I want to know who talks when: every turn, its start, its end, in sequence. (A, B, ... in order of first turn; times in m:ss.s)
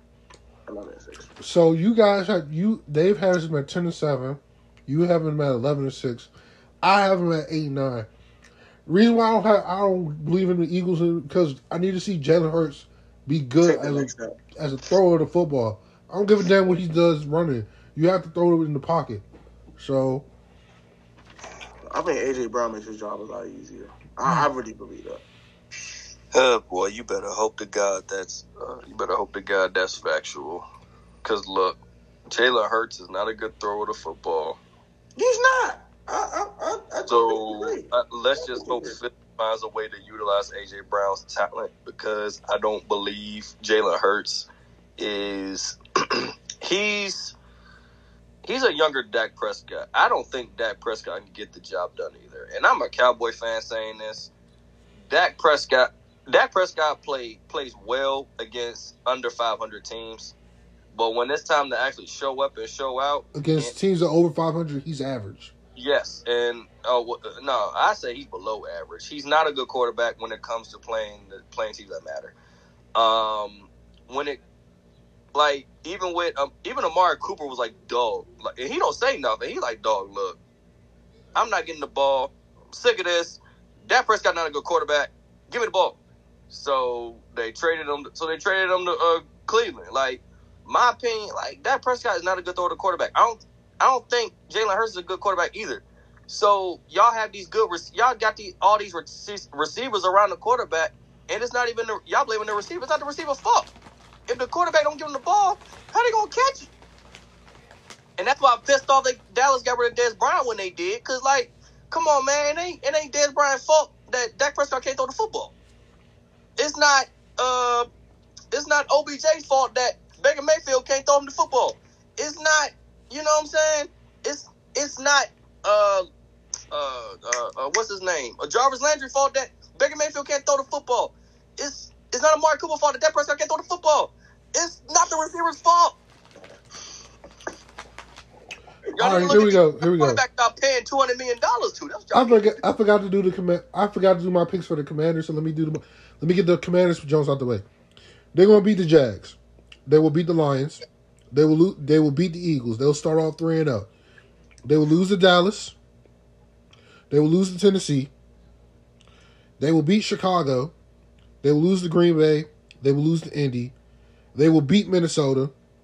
0:00.7-0:01.3 A
0:01.4-0:06.3 B
0:06.8-0:08.1 B
0:08.9-0:19.2 B
0:13.6-0:14.4 A
0:19.8-0:20.3 B
0:21.9-0:25.2 A
0:26.3-0:30.6 C
0:31.2-0:34.6 C
0:35.2-0:39.0 A
0:37.1-0:47.4 C
0:48.4-0:54.3 C
0:55.1-1:00.4 C
1:00.9-1:03.7 C
1:03.3-1:05.5 B
1:05.8-1:12.4 C
1:13.0-1:14.4 C
1:15.3-1:20.4 C
1:21.3-1:26.0 C
1:26.5-1:43.7 C
1:44.3-1:46.7 C
1:48.2-1:55.6 C
1:56.6-1:57.9 C
1:58.5-2:06.1 C
2:06.7-2:16.0 C
2:18.9-2:22.6 C
2:19.0-2:20.2 B
2:22.1-2:27.6 B
2:28.3-2:33.9 B
2:34.6-2:35.7 B
2:37.1-2:38.1 B
2:39.6-2:40.7 B
2:41.4-2:43.7 B
2:44.3-2:45.5 B